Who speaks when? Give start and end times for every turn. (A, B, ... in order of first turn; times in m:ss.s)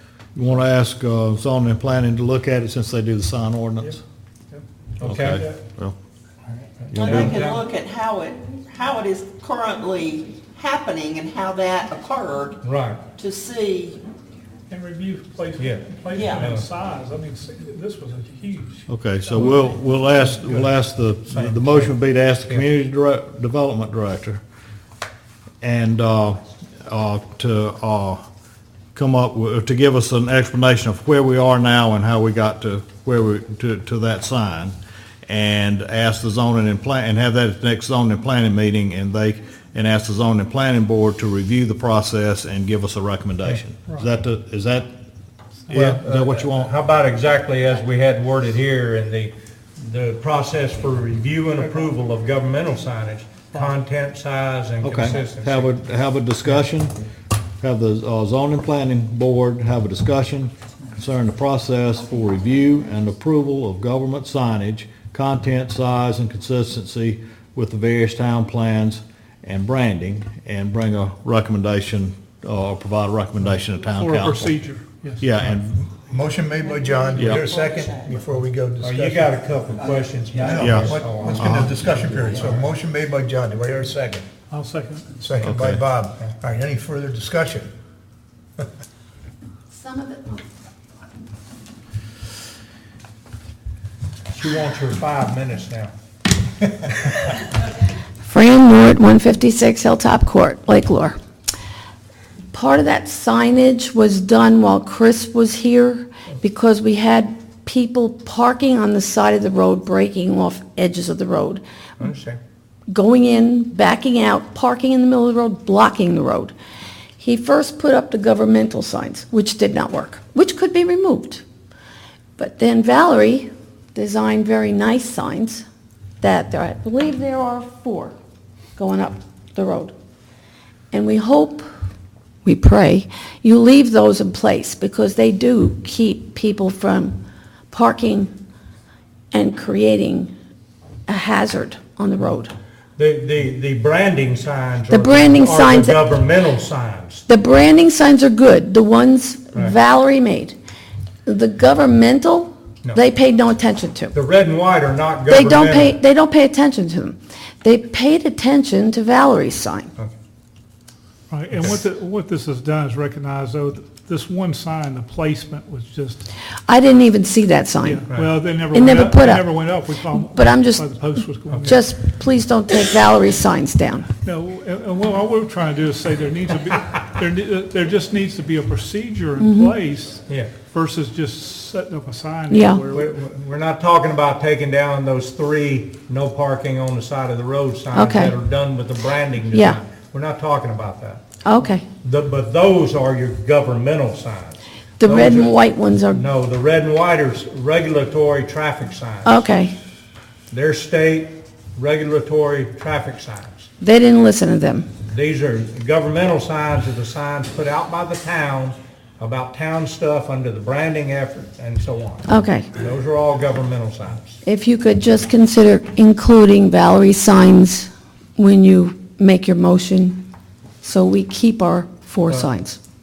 0:00.4-0:04.0 A
0:05.0-0:05.5 B
0:05.0-0:06.0 A
0:05.3-0:05.6 C
0:06.9-0:07.6 B
0:06.9-0:07.4 A
0:07.0-0:12.6 D
0:12.6-0:13.0 B
0:13.2-0:14.0 D
0:14.7-0:19.7 C
0:15.6-0:15.8 B
0:16.1-0:16.5 D
0:16.4-0:16.7 B
0:18.9-0:24.4 A
0:20.3-0:20.7 B
0:21.3-0:22.7 B
0:25.6-0:28.2 A
0:29.0-0:34.8 A
0:35.3-0:44.9 A
0:45.7-0:46.0 C
0:45.7-0:46.7 A
0:45.7-0:55.8 B
0:54.8-0:56.9 A
0:57.6-1:14.6 A
1:14.0-1:15.3 C
1:15.2-1:15.8 A
1:15.4-1:19.3 E
1:16.2-1:18.4 D
1:17.2-1:17.4 A
1:18.8-1:22.4 B
1:20.4-1:24.3 E
1:20.6-1:21.7 A
1:22.1-1:22.5 D
1:24.5-1:25.3 C
1:25.2-1:27.7 E
1:25.4-1:25.8 A
1:29.7-1:30.4 F
1:34.3-1:35.9 B
1:38.2-1:41.2 F
1:42.5-1:51.6 F
1:52.0-1:52.4 B
1:52.9-1:56.5 F
1:57.2-2:01.4 F
2:02.4-2:05.6 F
2:06.2-2:08.2 F
2:08.8-2:09.9 F
2:10.9-2:11.7 F
2:12.4-2:17.2 F
2:17.7-2:18.3 F
2:19.3-2:20.3 F
2:21.1-2:22.5 F
2:23.0-2:27.2 B
2:24.9-2:26.0 F
2:27.3-2:30.6 F
2:31.3-2:34.1 F
2:34.1-2:36.0 B
2:35.3-2:39.9 F
2:41.3-2:46.3 C
2:46.7-2:48.0 F
2:47.8-2:51.9 C
2:48.7-2:50.9 F
2:51.6-2:54.1 F
2:54.2-3:03.2 C
2:59.4-2:59.7 F
3:02.5-3:02.8 F
3:02.9-3:11.2 B
3:07.9-3:08.4 F
3:09.5-3:09.8 F
3:11.4-3:11.8 F
3:12.0-3:15.5 B
3:15.0-3:16.2 F
3:16.1-3:19.4 B
3:19.2-3:19.8 F
3:20.5-3:23.7 B
3:23.8-3:24.9 F
3:25.1-3:34.4 B
3:32.3-3:32.7 F
3:34.4-3:40.2 F
3:40.8-3:42.8 F